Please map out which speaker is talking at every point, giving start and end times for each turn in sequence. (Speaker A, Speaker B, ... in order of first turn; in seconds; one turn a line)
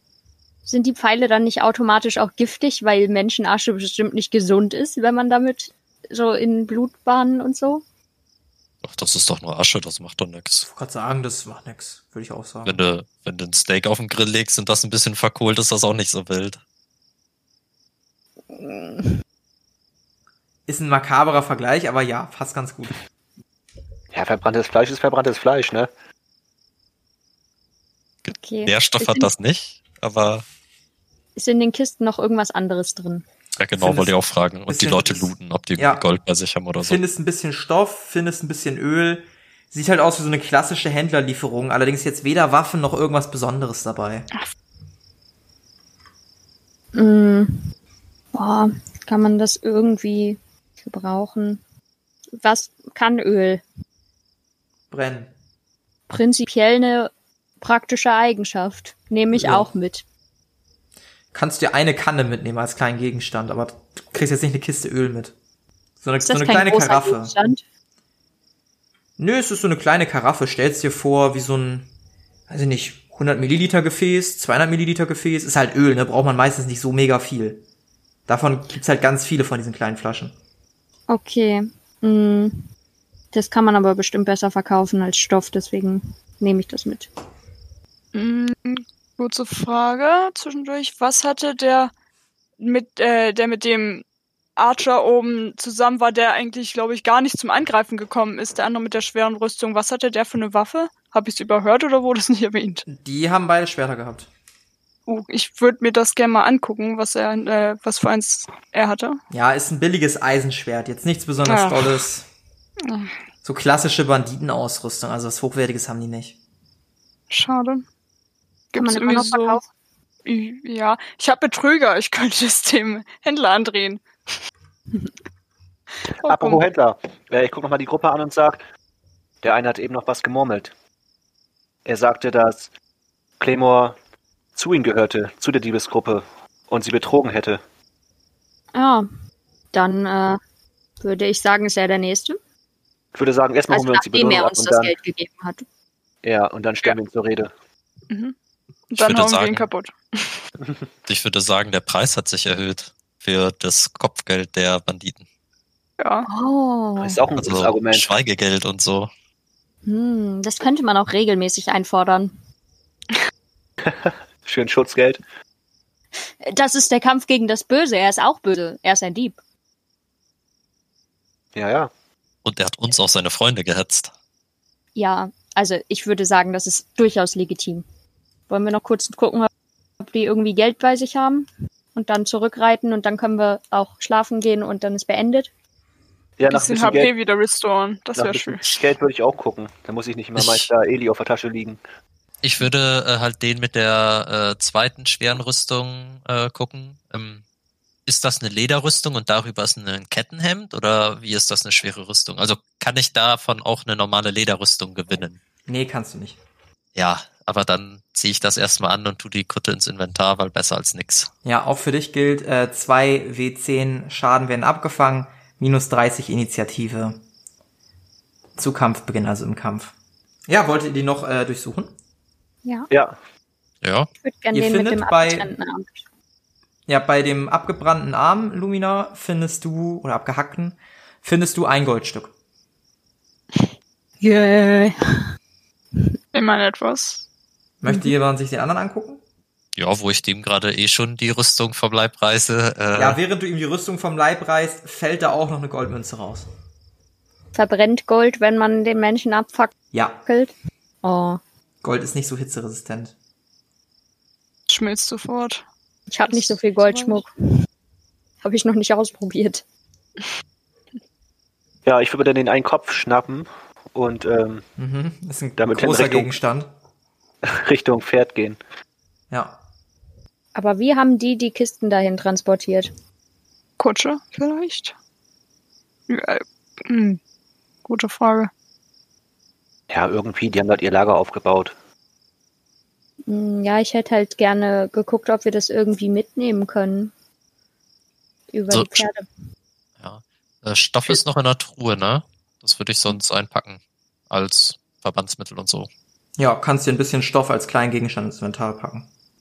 Speaker A: 0.7-7.8
Speaker B: 8.8-10.7
Speaker C: 10.7-12.8
Speaker B: 12.7-16.6
Speaker A: 18.5-19.2
Speaker C: 20.7-23.0
Speaker D: 24.1-25.9
Speaker B: 28.2-30.4
Speaker A: 28.3-29.3
Speaker A: 31.4-33.2
Speaker B: 33.6-37.0
Speaker C: 33.8-34.1
Speaker C: 34.7-36.0
Speaker C: 36.8-44.3
Speaker A: 46.9-47.7
Speaker A: 48.3-51.6
Speaker A: 52.4-53.6
Speaker C: 54.9-55.3
Speaker A: 56.1-60.0
Speaker C: 59.3-59.7
Speaker C: 61.3-65.3
Speaker C: 66.0-67.3
Speaker A: 66.2-67.6
Speaker C: 69.2-71.9
Speaker C: 72.5-77.6
Speaker C: 78.3-80.3
Speaker A: 81.1-82.7
Speaker A: 83.3-87.1
Speaker E: 88.1-91.9
Speaker E: 92.6-94.0
Speaker E: 94.6-102.9
Speaker C: 102.9-104.3
Speaker E: 105.1-109.2
Speaker C: 109.3-112.3
Speaker E: 111.5-112.0
Speaker E: 112.8-113.1
Speaker C: 113.4-116.3
Speaker E: 117.3-117.8
Speaker E: 118.7-119.6
Speaker A: 118.8-119.7
Speaker E: 120.2-124.4
Speaker E: 126.1-126.7
Speaker D: 126.2-128.6
Speaker D: 129.4-130.7
Speaker D: 131.8-132.7
Speaker D: 133.4-134.0
Speaker D: 134.6-137.6
Speaker A: 138.7-139.1
Speaker A: 139.7-140.4
Speaker A: 141.0-142.4
Speaker D: 143.2-144.9
Speaker A: 143.7-145.7
Speaker D: 146.2-147.5
Speaker E: 148.1-148.3
Speaker E: 148.9-150.4
Speaker B: 149.0-149.7
Speaker B: 151.1-155.2
Speaker E: 156.0-156.3
Speaker A: 156.3-157.2
Speaker D: 157.0-158.1
Speaker B: 157.4-159.1
Speaker A: 159.9-162.4
Speaker D: 163.8-165.2
Speaker A: 166.4-169.4
Speaker D: 171.6-171.9
Speaker B: 172.4-174.1
Speaker A: 174.9-177.8
Speaker A: 178.5-185.5
Speaker D: 186.4-187.1
Speaker E: 186.5-188.7
Speaker D: 188.2-191.8
Speaker B: 190.4-190.7
Speaker B: 192.4-197.4
Speaker B: 198.1-205.4
Speaker C: 205.7-206.4
Speaker B: 206.9-211.3
Speaker C: 211.4-217.2
Speaker C: 218.6-219.9
Speaker C: 220.5-221.9
Speaker D: 222.9-223.2
Speaker B: 223.8-224.1
Speaker A: 224.2-226.0
Speaker C: 224.5-225.5
Speaker C: 226.9-232.3
Speaker A: 234.2-235.3
Speaker E: 236.3-237.2
Speaker C: 237.8-239.2
Speaker B: 239.8-243.2
Speaker C: 242.9-246.5
Speaker A: 247.6-251.4
Speaker C: 249.9-250.2
Speaker C: 251.8-253.1
Speaker E: 254.7-255.7
Speaker A: 256.1-257.7
Speaker E: 256.3-257.2
Speaker A: 258.4-259.6
Speaker D: 261.9-264.7
Speaker C: 264.8-266.7
Speaker D: 265.6-266.4
Speaker D: 267.4-268.6
Speaker C: 269.3-269.6
Speaker A: 270.6-272.9
Speaker E: 273.8-274.9
Speaker E: 276.1-277.2
Speaker E: 277.9-278.5
Speaker D: 279.9-281.8
Speaker A: 283.3-287.1
Speaker A: 288.5-289.3
Speaker B: 288.7-289.1
Speaker B: 290.0-295.9
Speaker C: 296.4-299.1